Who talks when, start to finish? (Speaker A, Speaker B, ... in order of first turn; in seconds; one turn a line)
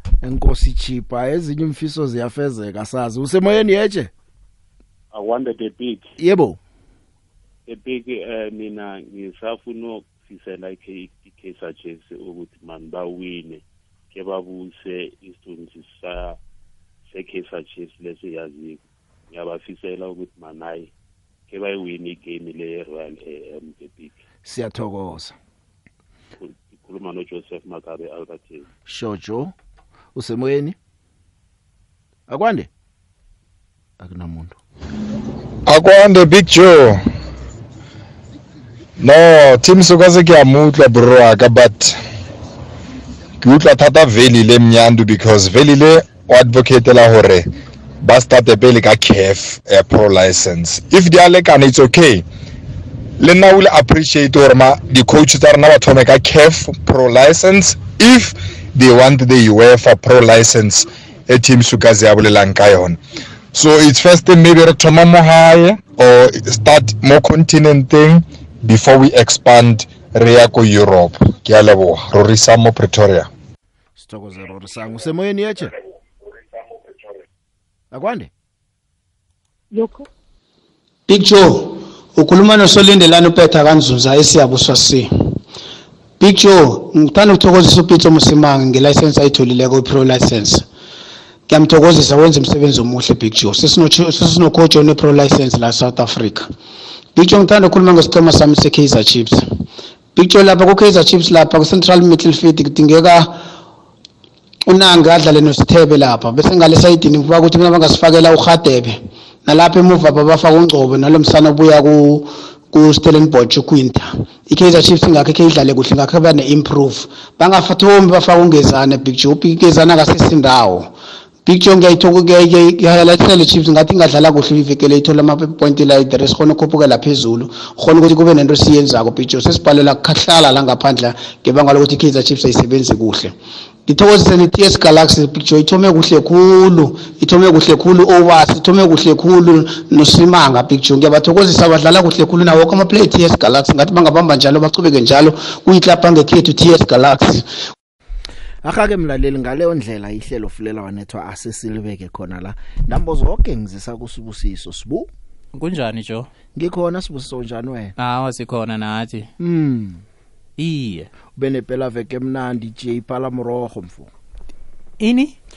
Speaker A: 0.2-4.1
Speaker B: 5.1-6.0
Speaker A: 6.2-6.6
Speaker B: 7.7-13.6
Speaker B: 14.1-16.3
Speaker B: 17.1-18.8
Speaker B: 19.3-20.9
Speaker B: 21.5-24.1
Speaker A: 24.4-25.4
Speaker B: 26.5-28.6
Speaker A: 28.9-29.5
Speaker A: 30.1-30.8
Speaker A: 32.3-32.7
Speaker A: 34.0-34.6
Speaker C: 35.7-37.0
Speaker C: 39.0-42.0
Speaker C: 43.4-47.5
Speaker C: 48.0-52.2
Speaker C: 53.2-63.0
Speaker C: 63.5-73.3
Speaker A: 74.0-75.7
Speaker A: 77.9-78.3
Speaker D: 81.1-85.4
Speaker D: 86.2-90.7
Speaker D: 91.5-96.5
Speaker D: 97.2-99.6
Speaker D: 100.2-103.4
Speaker D: 104.7-120.9
Speaker D: 121.5-133.3
Speaker D: 133.9-147.5
Speaker A: 148.6-155.1
Speaker E: 155.5-156.3
Speaker A: 156.6-157.9
Speaker E: 158.0-159.3
Speaker A: 159.4-160.0
Speaker E: 160.6-161.1
Speaker A: 161.4-164.1
Speaker E: 165.0-165.3